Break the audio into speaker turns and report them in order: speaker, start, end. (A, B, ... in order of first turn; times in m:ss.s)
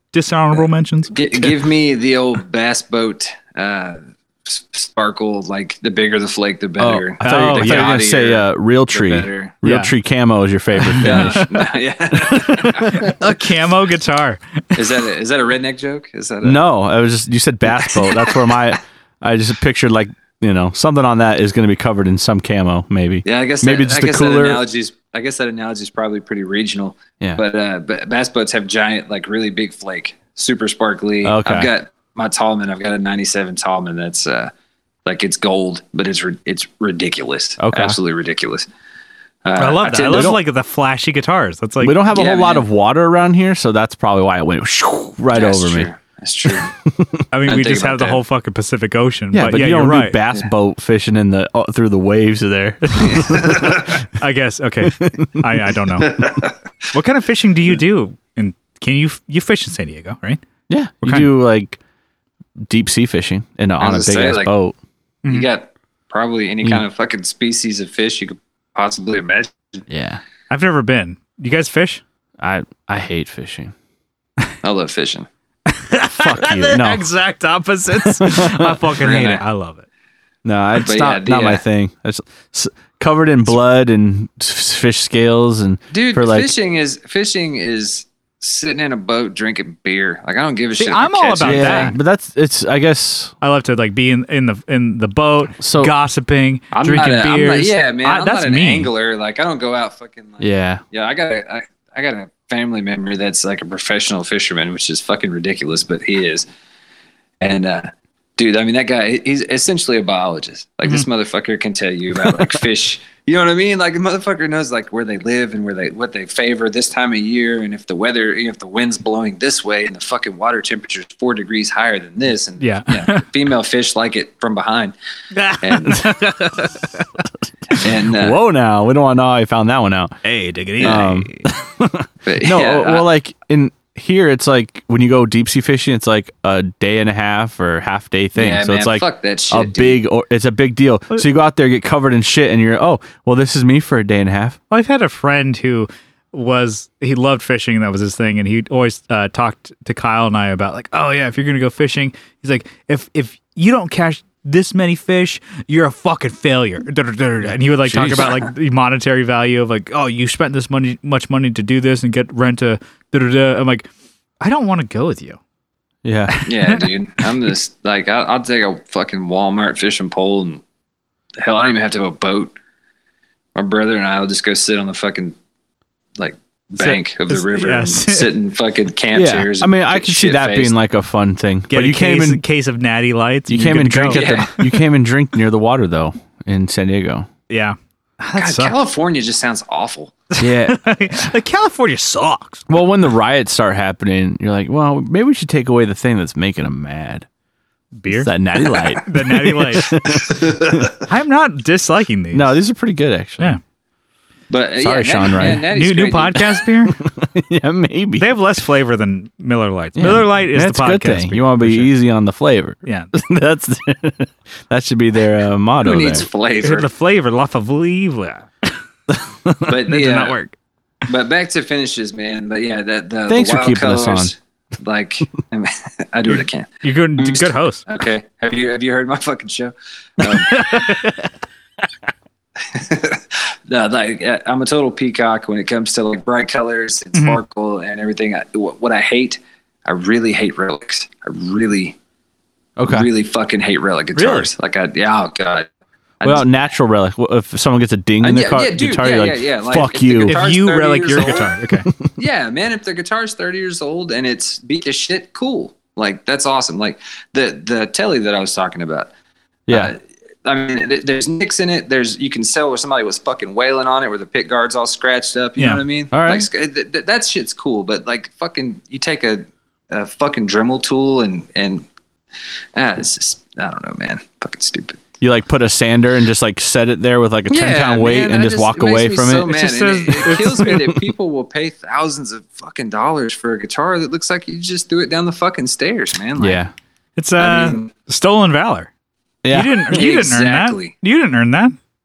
0:00.1-0:01.6 A
0:01.1-0:09.5 B
0:06.8-0:11.4 C
0:07.2-0:07.9 A
0:09.6-0:09.9 A
0:10.8-0:11.6 A
0:11.0-0:13.2 B
0:12.3-0:13.0 C
0:12.3-0:15.0 A
0:14.8-0:16.6 B
0:16.4-0:24.6 C
0:17.9-0:18.6 B
0:23.2-0:34.5 B
0:31.2-0:31.7 C
0:35.0-0:38.7 B
0:37.6-0:38.0 C
0:39.4-0:40.4 B
0:39.6-0:42.0 A
0:40.1-0:40.4 C
0:41.8-0:45.9 C
0:42.1-0:42.6 B
0:45.3-0:46.7 B
0:46.5-0:47.2 C
0:47.3-0:50.2 A
0:47.5-0:48.2 B
0:49.3-0:53.9 C
0:53.0-0:56.4 A
0:54.8-0:55.3 C
0:56.1-0:56.5 B
0:56.9-1:00.4 A
1:00.7-1:01.8 C
1:01.0-1:01.3 A
1:02.6-1:04.8 C
1:03.8-1:04.5 B
1:05.3-1:09.8 B
1:09.9-1:10.2 C
1:10.5-1:12.0 A
1:12.4-1:13.7 C
1:14.6-1:15.3 B
1:15.7-1:19.9 A
1:16.1-1:17.0 C
1:18.0-1:18.9 C
1:19.0-1:19.4 B
1:20.4-1:26.5 C
1:20.8-1:21.6 B
1:25.9-1:32.0 B
1:30.8-1:32.0 A
1:31.4-1:33.3 C
1:33.4-1:38.9 A
1:35.6-1:35.9 C
1:36.7-1:46.5 B
1:40.4-1:40.8 C
1:47.4-2:05.0 B
2:02.6-2:03.3 A
2:05.3-2:07.1 A
2:05.6-2:06.1 B
2:07.7-2:08.4 B
2:07.9-2:10.1 C
2:10.2-2:11.4 A
2:10.8-2:24.6 C
2:12.2-2:13.0 B
2:18.4-2:20.0 B
2:24.7-2:43.9 A
2:37.8-2:38.3 C
2:44.4-2:45.4 A
2:46.0-2:46.3 C
2:46.3-2:46.9 A
2:46.4-2:50.6 B
2:51.4-2:52.5 B
2:53.6-2:55.4 B
2:56.2-3:00.7 B
2:56.8-2:58.3 A
2:59.1-3:02.4 C
3:01.7-3:04.5 A
3:03.5-3:07.3 C
3:04.1-3:04.6 B
3:07.5-3:08.8 A
3:08.4-3:10.2 B
3:10.3-3:12.7 A
3:10.4-3:10.8 C
3:12.7-3:17.3 C
3:18.0-3:19.9 A
3:18.1-3:20.9 C
3:20.2-3:20.7 B
3:21.0-3:22.6 A
3:22.3-3:23.6 C
3:24.5-3:26.6 B
3:24.8-3:25.7 C
3:25.4-3:27.0 A
3:26.9-3:28.3 C
3:28.2-3:31.9 A
3:30.0-3:36.3 C
3:32.8-3:33.1 A
3:35.8-3:36.9 B
3:36.6-3:38.5 A
3:39.1-3:39.7 C
3:39.7-3:40.6 A
3:39.7-3:40.4 B
3:41.1-3:50.9 B
3:43.3-3:44.3 C
3:46.8-3:47.8 A
3:50.3-3:51.2 A
3:52.6-4:02.0 B
3:57.1-3:57.4 A
4:02.8-4:03.1 C
4:02.9-4:05.7 B
4:04.1-4:04.5 A
4:06.2-4:06.5 B
4:06.2-4:10.4 C
4:08.2-4:11.5 B
4:10.3-4:11.9 A
4:12.2-4:19.1 B
4:19.7-4:19.9 C
4:19.7-4:31.9 B
4:25.6-4:25.8 A
4:26.1-4:26.5 C
4:32.7-4:35.0 B
4:35.2-4:39.6 C
4:37.5-4:46.6 B
4:39.5-4:41.0 A
4:46.4-4:46.7 C
4:47.2-4:48.9 A
4:47.4-4:47.9 B
4:49.4-4:49.8 C
4:49.5-4:51.8 A
4:49.9-4:50.9 B